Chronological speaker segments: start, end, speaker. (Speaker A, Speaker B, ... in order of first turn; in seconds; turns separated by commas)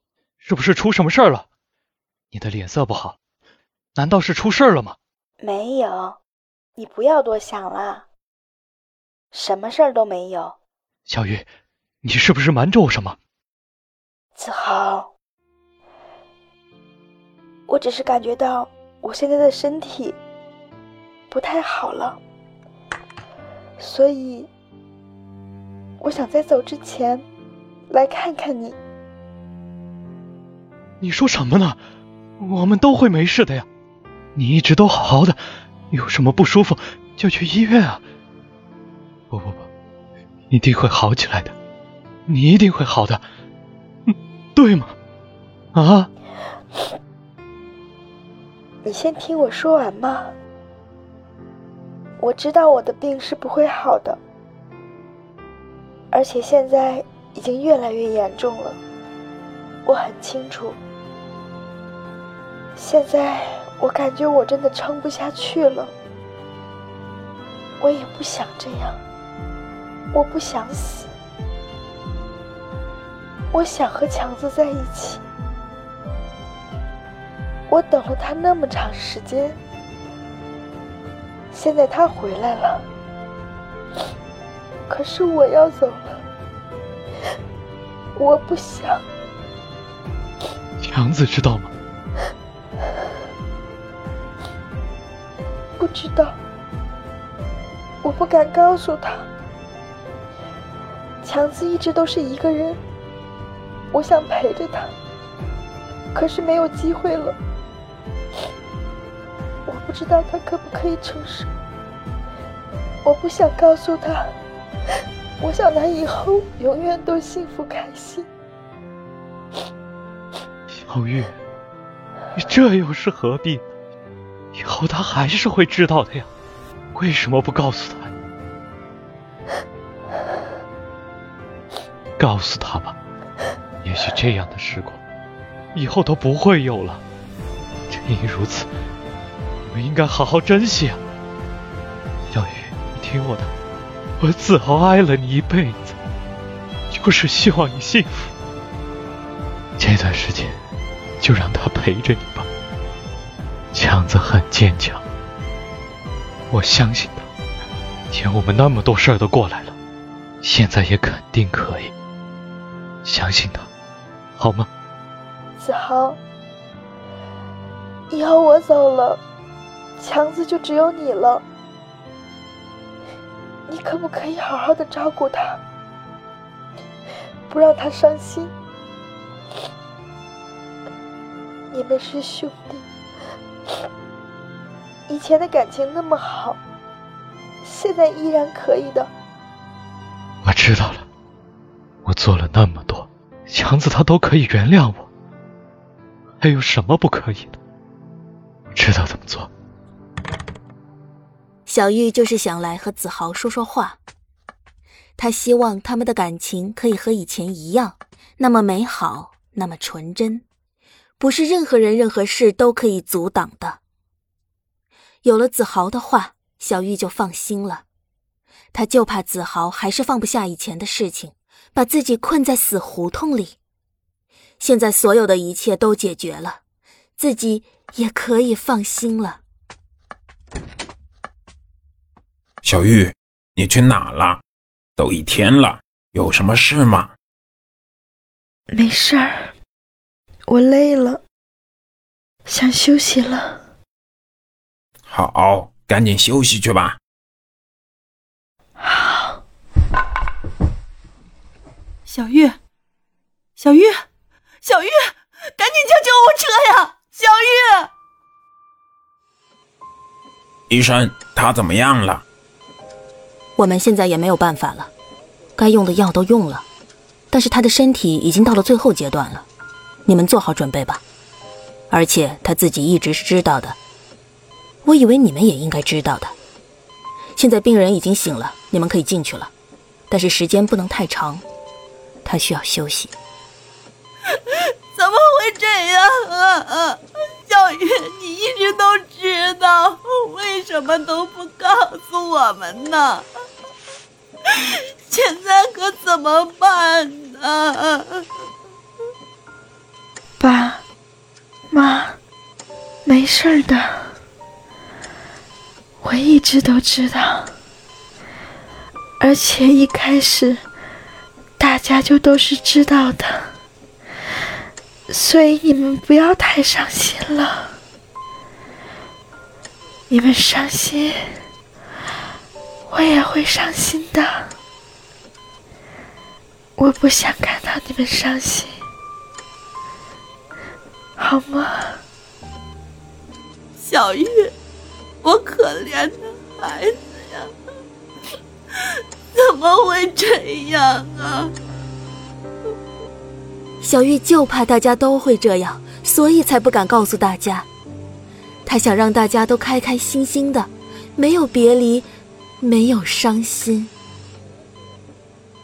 Speaker A: 0.4-1.5, Speaker A: 2.3-3.2, Speaker A: 4.0-5.0, Speaker B: 5.4-6.2, Speaker B: 6.8-8.1, Speaker B: 9.3-10.6, Speaker A: 11.1-11.5, Speaker A: 12.0-13.2, Speaker B: 14.4-15.1, Speaker B: 17.7-20.2, Speaker B: 21.3-22.2, Speaker B: 23.8-24.5, Speaker B: 26.0-27.3, Speaker B: 27.9-28.8, Speaker A: 31.0-31.8, Speaker A: 32.4-33.7, Speaker A: 34.4-38.0, Speaker A: 39.3-39.7, Speaker A: 40.5-41.5, Speaker A: 42.3-43.2, Speaker A: 44.1-45.0, Speaker A: 45.7-46.1, Speaker B: 48.8-50.3, Speaker B: 52.2-54.2, Speaker B: 56.1-58.8, Speaker B: 59.9-60.8, Speaker B: 62.8-65.9, Speaker B: 67.8-69.0, Speaker B: 70.1-71.1, Speaker B: 73.5-75.2, Speaker B: 77.7-79.6, Speaker B: 81.5-82.9, Speaker B: 84.9-86.2, Speaker B: 88.2-89.0, Speaker A: 90.8-91.7, Speaker B: 95.8-96.4, Speaker B: 98.0-99.3, Speaker B: 101.2-102.8, Speaker B: 103.9-104.9, Speaker B: 106.1-107.4, Speaker B: 109.7-111.5, Speaker B: 113.0-114.3, Speaker B: 115.4-118.3, Speaker A: 120.7-121.4, Speaker A: 122.3-123.7, Speaker A: 124.5-126.3, Speaker A: 126.9-128.1, Speaker A: 132.2-133.0, Speaker A: 133.8-135.0, Speaker A: 135.7-137.0, Speaker A: 137.9-138.7, Speaker A: 139.7-141.0, Speaker A: 142.3-143.5, Speaker A: 144.2-146.0, Speaker A: 146.9-148.3, Speaker A: 149.8-150.6, Speaker A: 151.2-152.5, Speaker A: 153.7-155.0, Speaker A: 156.5-157.3, Speaker A: 158.1-159.8, Speaker A: 160.4-161.9, Speaker A: 163.0-163.7, Speaker A: 164.4-164.7, Speaker B: 165.6-166.2, Speaker B: 168.1-169.2, Speaker B: 170.0-171.4, Speaker B: 173.7-175.6, Speaker B: 177.5-178.5, Speaker B: 181.7-182.8, Speaker B: 185.1-186.6, Speaker B: 187.6-189.1, Speaker A: 190.4-191.1, Speaker A: 192.1-195.1, Speaker A: 196.4-197.6, Speaker A: 198.7-199.5, Speaker C: 201.7-204.0, Speaker C: 205.2-210.4, Speaker C: 211.2-213.8, Speaker C: 215.2-217.8, Speaker C: 218.7-223.6, Speaker C: 224.6-226.6, Speaker C: 227.2-229.4, Speaker D: 232.6-234.4, Speaker D: 235.0-237.1, Speaker B: 238.7-239.5, Speaker B: 240.5-241.2, Speaker B: 242.5-243.6, Speaker D: 245.1-247.0, Speaker B: 248.8-249.4, Speaker E: 252.1-252.6, Speaker E: 253.6-254.0, Speaker E: 254.7-255.0, Speaker E: 255.6-257.9, Speaker D: 260.7-262.2, Speaker C: 263.6-264.9, Speaker C: 265.6-266.6, Speaker C: 267.3-269.5, Speaker C: 270.1-271.0, Speaker C: 271.9-273.8, Speaker C: 274.8-276.3, Speaker C: 277.4-279.5, Speaker C: 280.1-281.4, Speaker C: 282.2-283.1, Speaker E: 284.9-287.0, Speaker E: 287.5-293.2, Speaker E: 295.1-298.1, Speaker B: 300.4-300.8, Speaker B: 301.7-302.2, Speaker B: 303.1-304.1, Speaker B: 306.0-307.5, Speaker B: 309.2-310.6, Speaker B: 311.6-313.5, Speaker B: 315.1-317.8, Speaker B: 320.1-321.4, Speaker B: 322.9-324.5, Speaker B: 326.8-328.8, Speaker B: 331.2-332.0, Speaker E: 333.8-334.5, Speaker E: 335.2-337.5, Speaker E: 339.4-341.5, Speaker C: 343.8-347.7, Speaker C: 348.7-352.1, Speaker C: 352.6-353.9